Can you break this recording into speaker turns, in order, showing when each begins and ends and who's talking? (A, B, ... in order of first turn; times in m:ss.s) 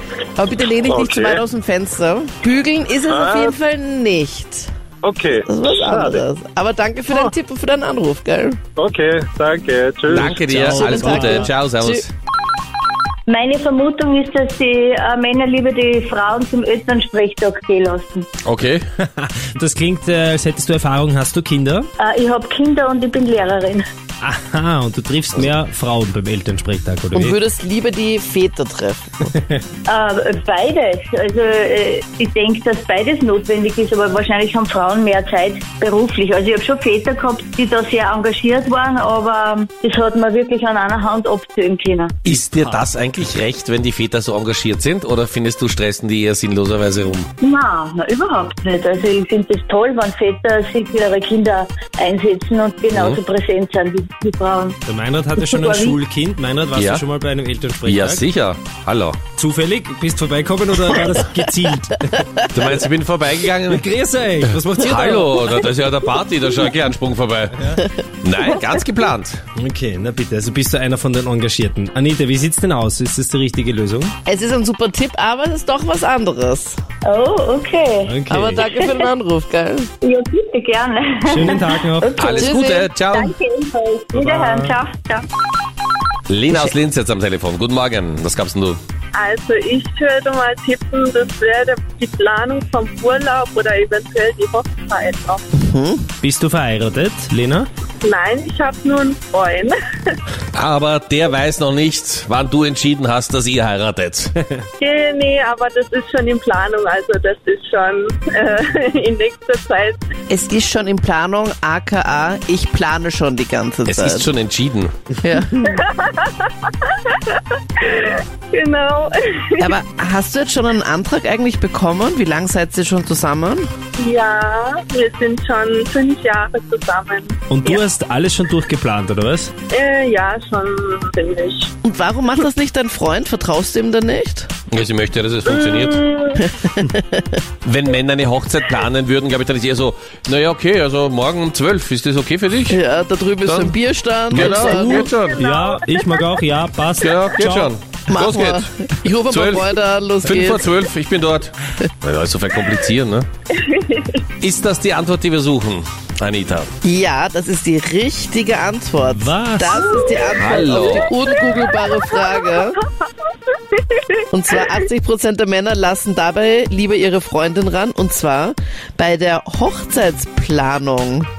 0:00.4-0:04.7 A
0:00.9-0:01.4 B
0:03.0-0:03.6 B
0:05.0-0:06.2 B
0:05.4-0:08.6 A
0:08.8-0:10.5 B
0:10.1-0:12.1 C
0:10.2-0:11.5 D
0:10.7-0:12.0 A
0:13.3-0:18.2 E
0:18.4-0:18.8 C
0:19.0-0:21.9 D
0:22.0-0:23.8 E
0:24.2-0:27.4 D
0:27.1-0:29.3 A
0:29.9-0:42.1 E
0:42.2-0:42.8 D
0:42.2-0:47.3 C
0:47.4-0:54.8 E
0:52.9-0:53.2 C
0:54.8-0:58.2 D
0:55.4-0:56.0 E
0:56.7-0:57.0 C
0:57.8-0:59.2 C
0:59.4-1:02.2 D
1:02.2-1:02.4 A
1:02.5-1:03.8 C
1:03.7-1:05.3 D
1:04.8-1:07.5 C
1:04.8-1:05.3 A
1:07.5-1:07.8 D
1:08.2-1:09.4 C
1:09.6-1:14.1 D
1:14.2-1:16.8 A
1:17.0-1:18.1 E
1:18.0-1:18.6 D
1:18.3-1:19.9 A
1:20.0-1:25.2 E
1:21.3-1:22.3 D
1:22.2-1:23.3 C
1:22.4-1:22.9 A
1:24.1-1:24.8 D
1:26.3-1:28.8 C
1:29.1-1:35.5 F
1:35.5-1:36.0 A
1:36.2-1:37.7 D
1:38.0-1:40.2 F
1:40.5-1:44.3 C
1:44.8-1:50.1 F
1:50.3-1:54.3 A
1:53.9-1:54.9 C
1:55.2-1:55.8 A
1:55.6-1:59.8 F
1:59.6-2:03.7 A
2:04.0-2:07.8 F
2:07.5-2:09.5 D
2:09.7-2:11.7 F
2:11.8-2:14.5 A
2:14.7-2:16.0 C
2:15.4-2:16.4 F
2:16.4-2:17.3 A
2:17.6-2:22.8 C
2:22.7-2:25.0 A
2:23.4-2:23.8 C
2:24.3-2:25.4 C
2:24.4-2:27.7 D
2:25.0-2:26.3 F
2:27.0-2:28.6 C
2:28.1-2:30.8 A
2:29.3-2:29.7 C
2:30.2-2:33.3 C
2:33.5-2:34.2 F
2:34.4-2:36.7 C
2:36.8-2:42.8 A
2:39.0-2:39.8 D
2:39.8-2:44.8 F
2:40.4-2:41.1 C
2:44.3-2:51.3 A